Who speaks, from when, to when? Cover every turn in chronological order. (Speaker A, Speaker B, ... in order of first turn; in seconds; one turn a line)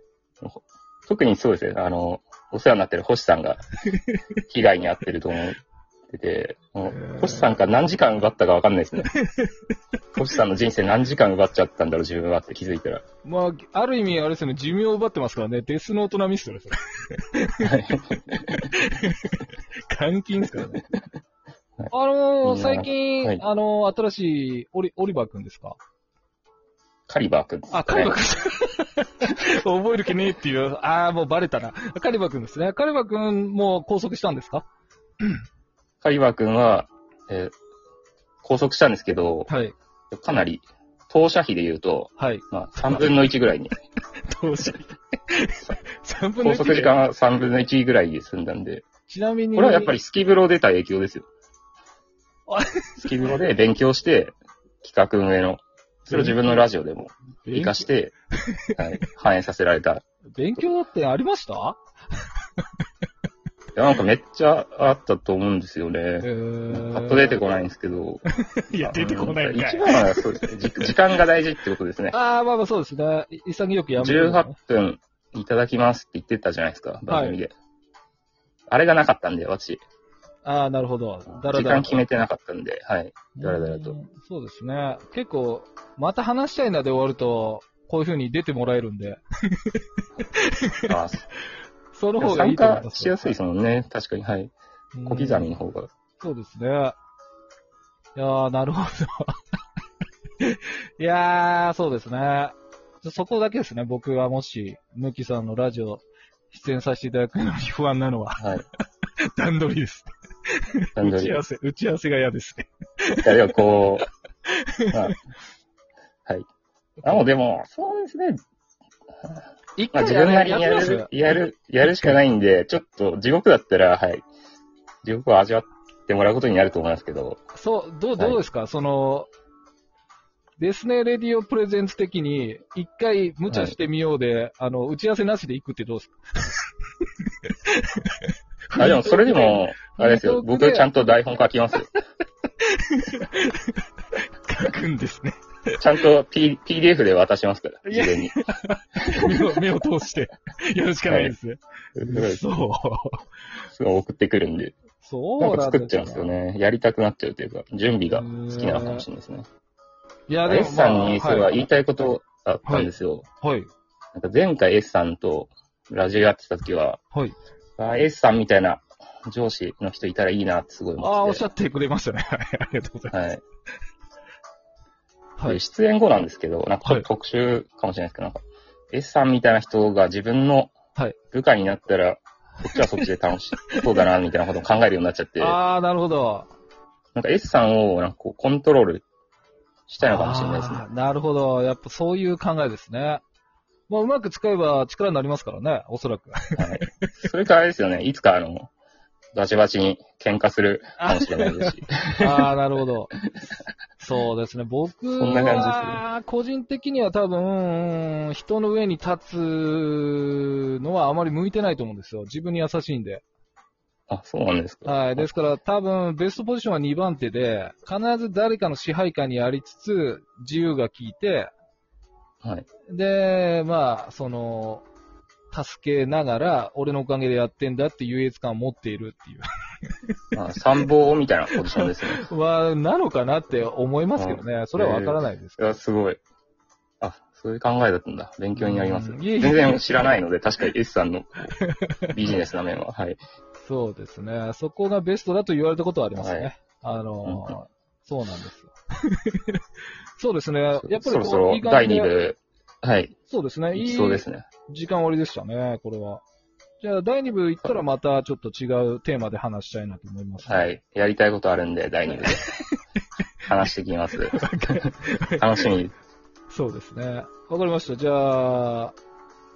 Speaker A: 0.4-3.6
Speaker B: 3.9-4.2
Speaker A: 4.5-9.1
Speaker B: 7.0-7.5
Speaker B: 9.1-9.7
Speaker A: 10.2-13.0
Speaker B: 13.2-17.7
Speaker A: 17.6-18.7
Speaker B: 18.5-20.8
Speaker B: 21.9-25.8
Speaker A: 22.4-23.4
Speaker A: 27.1-28.2
Speaker B: 27.7-34.6
Speaker A: 36.0-37.5
Speaker A: 38.4-39.5
Speaker B: 39.5-39.7
Speaker A: 40.1-43.7
Speaker B: 42.2-43.2
Speaker B: 44.2-46.9
Speaker A: 46.4-48.9
Speaker B: 49.1-49.9
Speaker A: 49.5-51.3
Speaker B: 52.5-53.3
Speaker A: 53.0-58.1
Speaker B: 56.1-56.6
Speaker B: 57.5-57.9
Speaker B: 58.5-58.7
Speaker A: 58.8-60.0
Speaker B: 60.4-61.8
Speaker A: 63.8-68.2
Speaker B: 66.2-67.4
Speaker B: 68.6-70.9
Speaker A: 68.7-72.1
Speaker B: 72.1-74.5
Speaker A: 74.0-77.5
Speaker B: 77.1-77.4
Speaker A: 78.7-79.8
Speaker B: 80.4-82.0
Speaker A: 81.3-84.0
Speaker B: 83.3-90.9
Speaker A: 90.9-91.2
Speaker B: 91.9-93.4
Speaker A: 92.2-94.5
Speaker B: 94.9-95.5
Speaker A: 95.0-95.9
Speaker B: 96.2-97.0
Speaker B: 98.2-99.3
Speaker B: 100.4-108.5
Speaker B: 109.2-113.6
Speaker A: 111.0-111.4
Speaker A: 113.2-114.1
Speaker B: 114.5-115.1
Speaker A: 114.9-115.2
Speaker A: 117.0-118.4
Speaker B: 119.8-121.1
Speaker A: 119.9-124.3
Speaker B: 121.8-122.2
Speaker A: 125.0-127.4
Speaker B: 127.5-129.3
Speaker B: 130.6-136.1
Speaker A: 133.5-133.7
Speaker B: 137.3-140.8
Speaker A: 138.8-141.9
Speaker B: 142.6-145.4
Speaker A: 145.8-148.3
Speaker B: 147.8-153.2
Speaker A: 149.1-149.6
Speaker A: 151.1-151.3
Speaker A: 151.9-152.4
Speaker A: 153.7-154.8
Speaker B: 155.0-156.3
Speaker A: 155.4-159.4
Speaker B: 158.1-159.1
Speaker B: 160.3-161.5
Speaker A: 160.4-163.2
Speaker B: 163.4-163.7
Speaker A: 164.1-167.0
Speaker A: 167.8-171.4
Speaker B: 171.0-173.2
Speaker A: 173.1-173.4
Speaker A: 175.4-180.7
Speaker A: 181.3-185.6
Speaker B: 182.7-183.1
Speaker B: 185.4-186.5
Speaker A: 187.1-189.0
Speaker A: 189.9-190.8
Speaker B: 190.0-193.2
Speaker B: 193.9-196.9
Speaker A: 196.6-198.7
Speaker A: 199.3-202.4
Speaker B: 201.0-203.1
Speaker B: 204.0-213.2
Speaker A: 205.2-206.0
Speaker A: 214.1-215.3
Speaker B: 214.8-221.5
Speaker B: 222.9-224.8
Speaker B: 225.5-230.1
Speaker A: 230.3-232.2
Speaker B: 231.7-235.8
Speaker A: 234.2-236.2
Speaker A: 237.0-241.5
Speaker B: 238.5-240.1
Speaker B: 241.6-242.1
Speaker A: 242.1-243.2
Speaker B: 243.6-249.6
Speaker A: 246.1-246.5
Speaker A: 247.2-247.5
Speaker B: 250.2-252.1
Speaker A: 250.8-253.1
Speaker B: 253.2-256.2
Speaker A: 253.7-254.4
Speaker B: 256.8-260.7
Speaker A: 260.4-262.5
Speaker B: 262.1-262.7
Speaker A: 263.5-265.9
Speaker B: 264.3-265.6
Speaker B: 266.5-268.9